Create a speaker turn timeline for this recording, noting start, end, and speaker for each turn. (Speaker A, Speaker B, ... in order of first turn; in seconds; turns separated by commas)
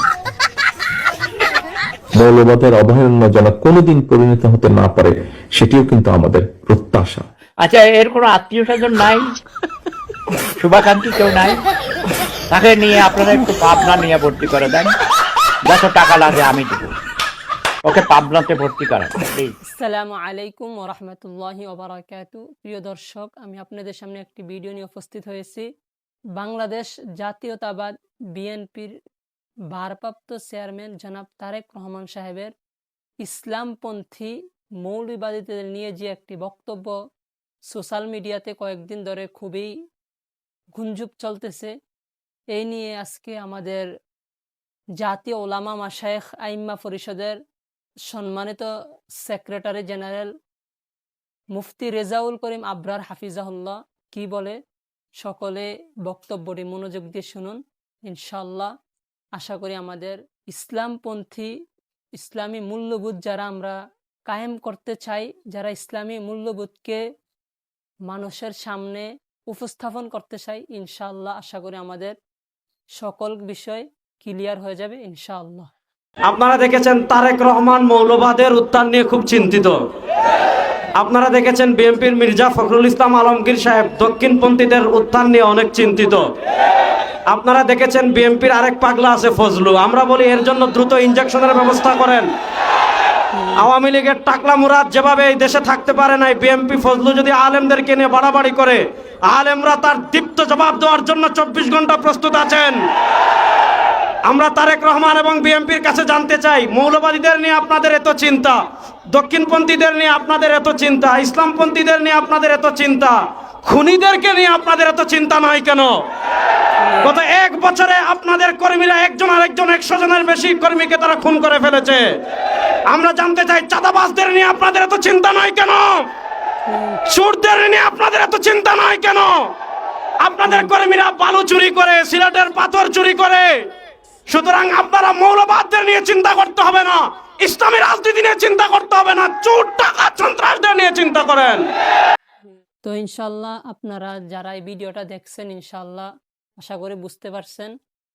Speaker A: 2.1-7.2, Speaker B: 7.6-9.4, Speaker B: 10.6-11.6, Speaker B: 12.5-15.0, Speaker B: 15.7-17.0, Speaker B: 17.8-19.6, Speaker C: 19.7-25.7, Speaker C: 26.4-28.9, Speaker C: 29.7-32.5, Speaker C: 33.2-37.0, Speaker C: 37.7-39.7, Speaker C: 40.8-41.7, Speaker C: 42.5-43.9, Speaker C: 45.0-47.4, Speaker C: 48.1-48.7, Speaker C: 49.2-50.3, Speaker C: 51.5-54.6, Speaker C: 55.2-58.7, Speaker C: 59.4-61.5, Speaker C: 62.2-67.0, Speaker C: 68.1-72.2, Speaker C: 73.0-75.7, Speaker D: 76.3-79.8, Speaker D: 81.0-86.2, Speaker D: 87.3-92.3, Speaker C: 93.4-93.7, Speaker D: 93.6-102.8, Speaker D: 104.3-108.6, Speaker D: 109.1-116.0, Speaker C: 116.8-117.1, Speaker D: 117.0-122.0, Speaker D: 122.9-126.1, Speaker C: 126.7-127.0, Speaker D: 127.1-129.4, Speaker D: 130.2-133.6, Speaker C: 130.5-130.7, Speaker D: 134.3-141.6, Speaker C: 142.4-146.1, Speaker C: 146.6-147.7